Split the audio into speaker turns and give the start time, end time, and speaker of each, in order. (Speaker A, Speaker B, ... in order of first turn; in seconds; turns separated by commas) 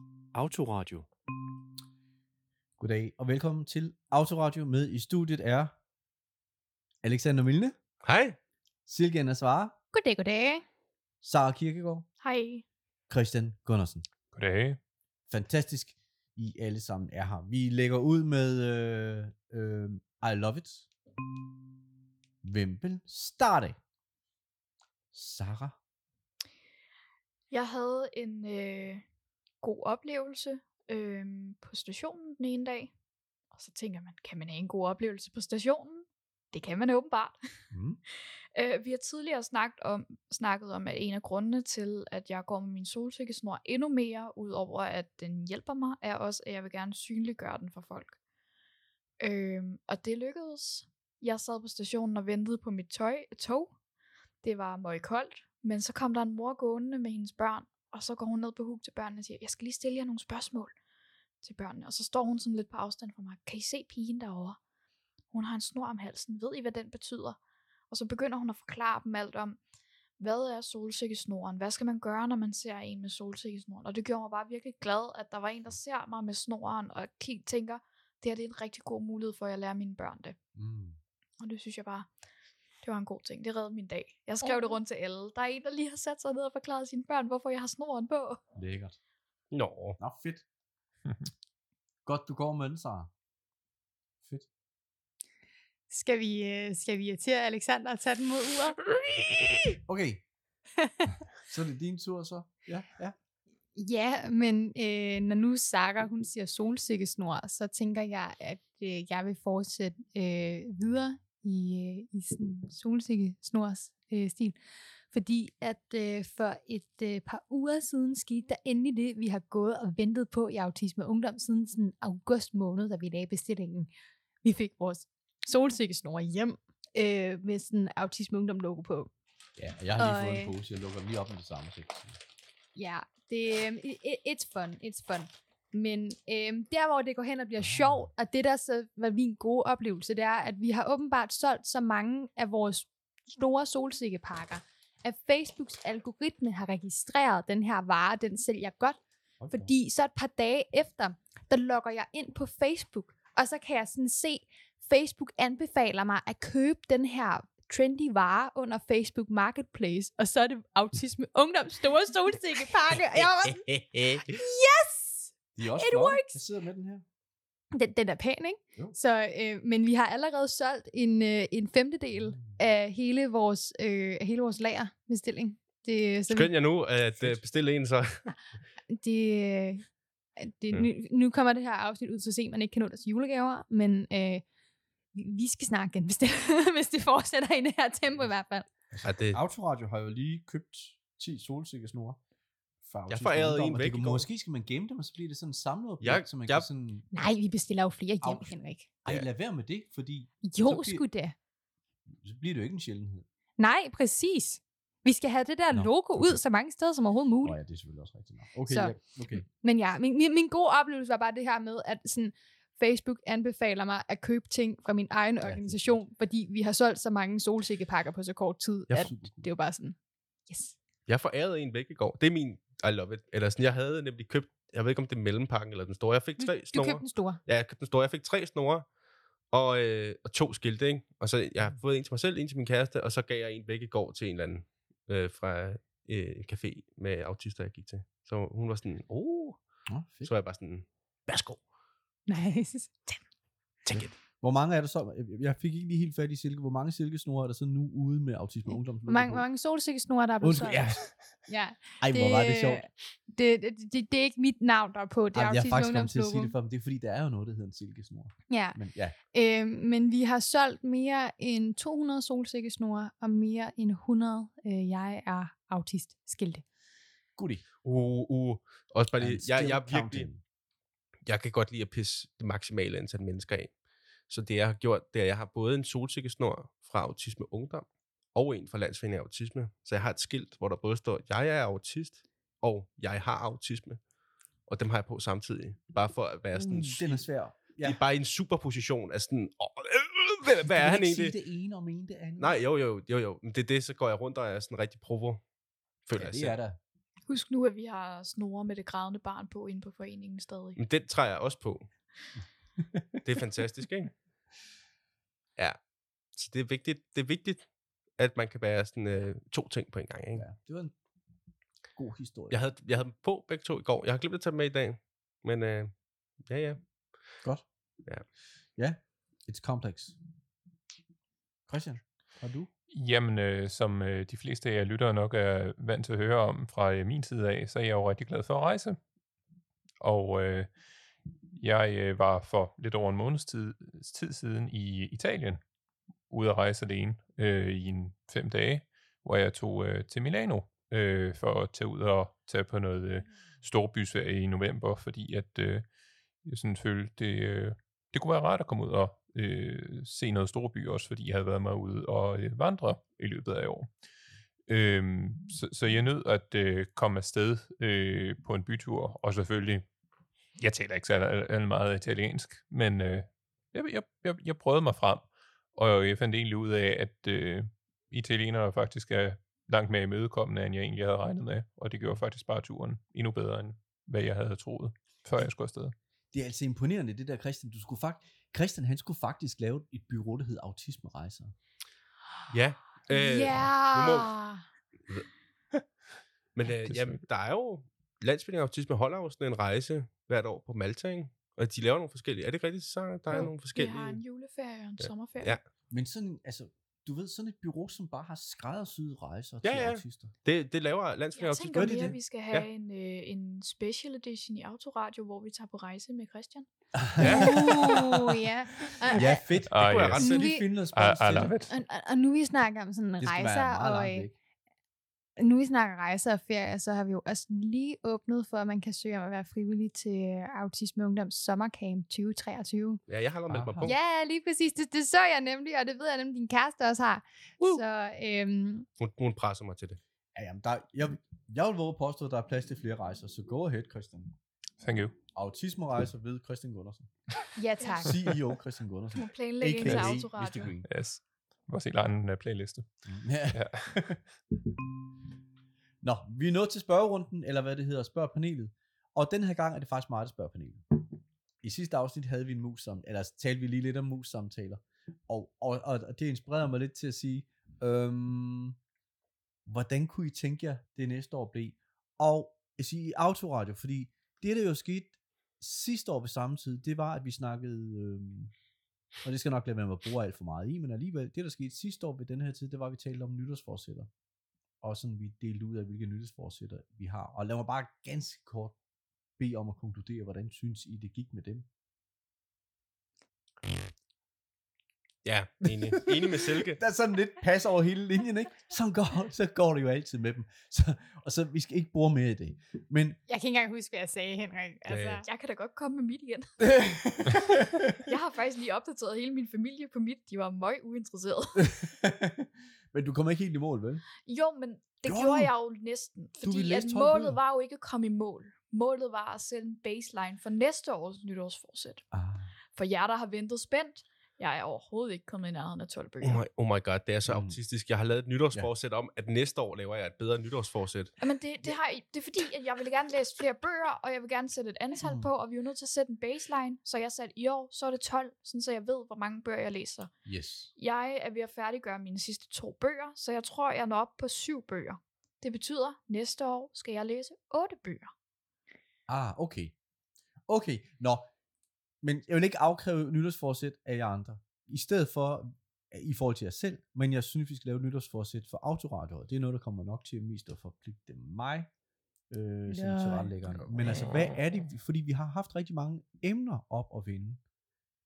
Speaker A: 0.3-1.1, Speaker A: 2.8-5.8, Speaker A: 7.0-7.8, Speaker B: 8.0-8.4, Speaker A: 8.9-9.8, Speaker C: 9.9-10.6, Speaker A: 11.2-12.1, Speaker D: 12.2-12.6, Speaker A: 13.1-14.1, Speaker E: 14.3-14.8, Speaker A: 15.3-20.9, Speaker A: 22.4-23.8, Speaker A: 25.1-25.8, Speaker D: 27.5-29.0, Speaker D: 29.6-32.9, Speaker D: 33.5-37.4, Speaker A: 37.7-38.0, Speaker D: 38.5-48.2, Speaker D: 49.2-53.8, Speaker D: 54.4-60.7, Speaker D: 61.4-64.6, Speaker D: 65.3-67.4, Speaker D: 67.9-69.6, Speaker D: 70.2-80.4, Speaker A: 80.5-81.0, Speaker D: 81.4-82.1, Speaker D: 82.8-88.4, Speaker C: 84.5-84.7, Speaker A: 88.5-89.0, Speaker B: 89.5-90.0, Speaker A: 90.0-90.5, Speaker A: 92.0-93.1, Speaker A: 94.2-94.5, Speaker C: 95.9-98.8, Speaker A: 99.8-100.2, Speaker C: 100.8-101.1, Speaker A: 101.4-103.2, Speaker C: 103.8-114.6, Speaker C: 115.1-123.9, Speaker C: 124.4-129.1, Speaker A: 129.6-132.2, Speaker C: 130.0-130.6, Speaker C: 132.8-149.0, Speaker A: 137.6-138.1, Speaker A: 149.4-149.7, Speaker C: 149.5-163.7, Speaker B: 163.2-164.3, Speaker C: 164.2-166.4, Speaker A: 165.6-167.0, Speaker C: 167.7-176.5, Speaker A: 172.2-172.6, Speaker B: 176.3-178.3, Speaker C: 178.9-179.9, Speaker C: 180.4-184.4, Speaker C: 185.1-188.7, Speaker A: 188.9-192.2, Speaker B: 189.0-189.4, Speaker A: 192.8-197.1, Speaker B: 193.1-194.3, Speaker B: 196.0-196.7, Speaker C: 197.1-198.9, Speaker A: 198.2-201.1, Speaker C: 200.4-201.3, Speaker A: 202.1-203.3, Speaker C: 203.6-207.6, Speaker A: 205.7-206.4, Speaker A: 207.4-209.5, Speaker C: 208.7-220.0, Speaker A: 215.4-216.0, Speaker A: 218.9-219.5, Speaker C: 220.5-220.8, Speaker B: 221.1-228.9, Speaker C: 226.4-227.4, Speaker B: 229.5-239.6, Speaker A: 239.9-240.3, Speaker B: 240.2-241.6, Speaker C: 242.3-243.2, Speaker B: 243.8-244.1, Speaker A: 243.9-249.5, Speaker C: 249.1-256.5, Speaker A: 250.4-251.1, Speaker A: 252.0-252.8, Speaker A: 255.3-259.2, Speaker C: 258.5-258.8, Speaker C: 259.3-266.6, Speaker A: 267.4-267.7, Speaker B: 267.9-270.3, Speaker A: 269.2-270.4, Speaker B: 271.3-273.7, Speaker B: 274.3-284.0, Speaker B: 284.7-287.2, Speaker A: 286.5-288.0, Speaker B: 287.8-291.4, Speaker A: 290.6-292.6, Speaker B: 292.4-295.4, Speaker B: 296.1-296.6, Speaker A: 296.2-296.8, Speaker D: 297.3-300.8, Speaker B: 300.8-301.9, Speaker A: 302.8-303.1, Speaker B: 303.2-304.1, Speaker B: 306.4-307.7, Speaker B: 308.2-310.4, Speaker A: 310.4-310.9, Speaker A: 312.0-312.6, Speaker B: 312.5-315.9, Speaker B: 316.4-316.8, Speaker A: 318.8-320.2, Speaker A: 321.7-322.7, Speaker E: 322.9-329.0, Speaker E: 330.0-330.7, Speaker E: 331.5-335.6, Speaker E: 336.3-345.9, Speaker E: 346.4-353.9, Speaker E: 354.7-359.9, Speaker E: 360.6-375.9, Speaker A: 376.3-381.5, Speaker B: 382.5-384.4, Speaker C: 383.1-384.6, Speaker B: 386.6-394.2, Speaker E: 386.9-387.2, Speaker D: 393.3-395.6, Speaker B: 395.0-395.6, Speaker A: 395.9-400.3, Speaker B: 399.6-402.7, Speaker D: 401.4-406.7, Speaker A: 401.7-402.2, Speaker A: 406.9-408.4, Speaker B: 407.2-408.1, Speaker C: 407.2-409.5, Speaker A: 409.1-411.5, Speaker B: 409.2-410.5, Speaker E: 409.7-411.8, Speaker C: 410.2-410.7, Speaker C: 411.7-414.3, Speaker A: 413.2-414.4, Speaker C: 415.4-423.0, Speaker B: 423.1-423.9, Speaker A: 423.5-423.9, Speaker C: 423.8-428.9, Speaker B: 429.0-430.0, Speaker A: 430.4-434.4, Speaker E: 434.8-435.2, Speaker A: 435.3-437.1, Speaker C: 437.6-438.2, Speaker D: 437.8-438.1, Speaker A: 438.0-440.9, Speaker D: 439.1-440.8, Speaker E: 439.8-440.2, Speaker E: 440.8-442.9, Speaker A: 443.1-444.2, Speaker E: 443.5-444.0, Speaker A: 446.0-451.1, Speaker A: 451.6-458.8, Speaker A: 459.7-468.5, Speaker A: 469.2-474.1, Speaker A: 474.8-478.8, Speaker A: 479.4-481.7, Speaker B: 485.2-486.8, Speaker A: 485.7-493.2, Speaker C: 493.3-495.3, Speaker B: 494.9-495.2, Speaker D: 495.2-496.5, Speaker A: 496.6-498.0, Speaker D: 498.1-501.8, Speaker A: 501.6-504.1, Speaker D: 504.2-512.0, Speaker A: 505.1-505.5, Speaker A: 506.4-507.4, Speaker A: 512.1-512.5, Speaker D: 512.8-516.4, Speaker B: 516.2-521.1, Speaker A: 517.3-517.6, Speaker D: 521.2-530.1, Speaker A: 525.0-525.3, Speaker A: 530.3-530.7, Speaker D: 530.8-538.1, Speaker A: 539.1-539.8, Speaker A: 540.5-541.3, Speaker A: 542.0-551.7, Speaker A: 552.3-557.4, Speaker C: 552.7-553.4